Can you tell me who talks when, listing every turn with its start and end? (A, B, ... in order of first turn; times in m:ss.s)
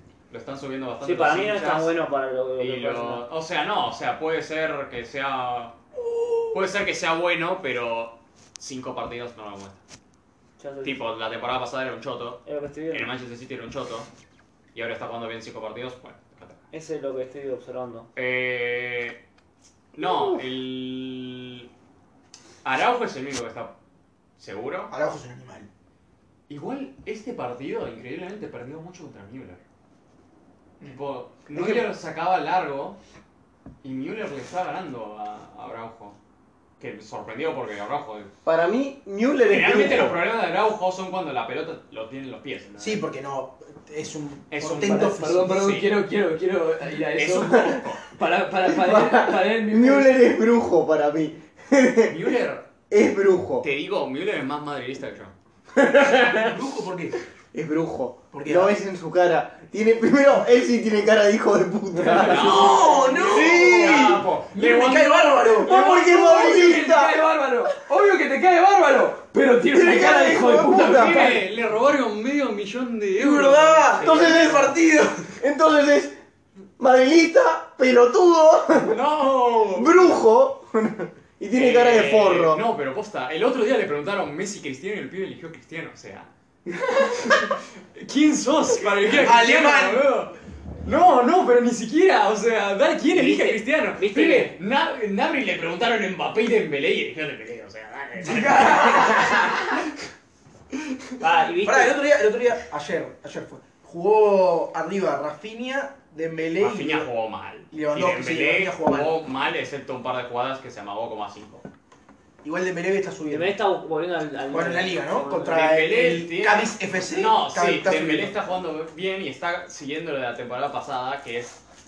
0:00.3-0:01.9 A
0:01.0-0:03.2 B
0:02.6-0:05.8 A
0:06.5-0:09.8 A
0:10.6-0:11.0 B
0:10.8-0:14.1 A
0:12.5-0:13.1 B
0:14.7-0:16.6 A
0:16.7-0:18.1 B
0:18.2-0:19.2 A
0:20.0-0:21.7 A
0:22.6-0:23.7 A
0:24.4-0:24.9 A
0:24.9-0:25.7 C
0:26.5-0:29.6 A
0:30.8-0:33.0 A
0:33.8-0:36.2 A
0:36.8-0:38.3 A
0:38.4-0:40.2 D
0:39.4-0:43.0 A
0:42.8-0:45.6 C
0:44.5-0:46.0 A
0:44.9-0:50.2 E
0:47.1-0:48.0 A
0:48.7-0:52.3 D
0:52.1-0:52.6 A
0:52.9-0:53.7 D
0:53.6-0:55.3 A
0:55.8-0:56.5 D
0:56.3-0:57.2 C
0:57.5-1:04.2 D
0:58.3-0:58.8 C
1:01.9-1:02.6 E
1:02.1-1:07.0 A
1:02.3-1:05.7 C
1:05.7-1:07.2 D
1:06.0-1:11.4 E
1:09.7-1:11.2 D
1:10.8-1:14.7 A
1:13.2-1:15.1 C
1:14.0-1:16.2 D
1:16.8-1:19.0 D
1:18.8-1:20.2 A
1:19.7-1:22.6 D
1:21.5-1:26.3 A
1:27.0-1:39.8 A
1:29.1-1:30.0 C
1:33.1-1:34.5 B
1:38.2-1:39.6 E
1:41.2-1:42.0 B
1:41.6-1:47.1 C
1:46.6-1:51.6 A
1:47.7-1:49.1 C
1:52.4-1:53.6 C
1:53.3-1:55.6 B
1:54.5-1:58.4 C
1:55.5-2:01.6 A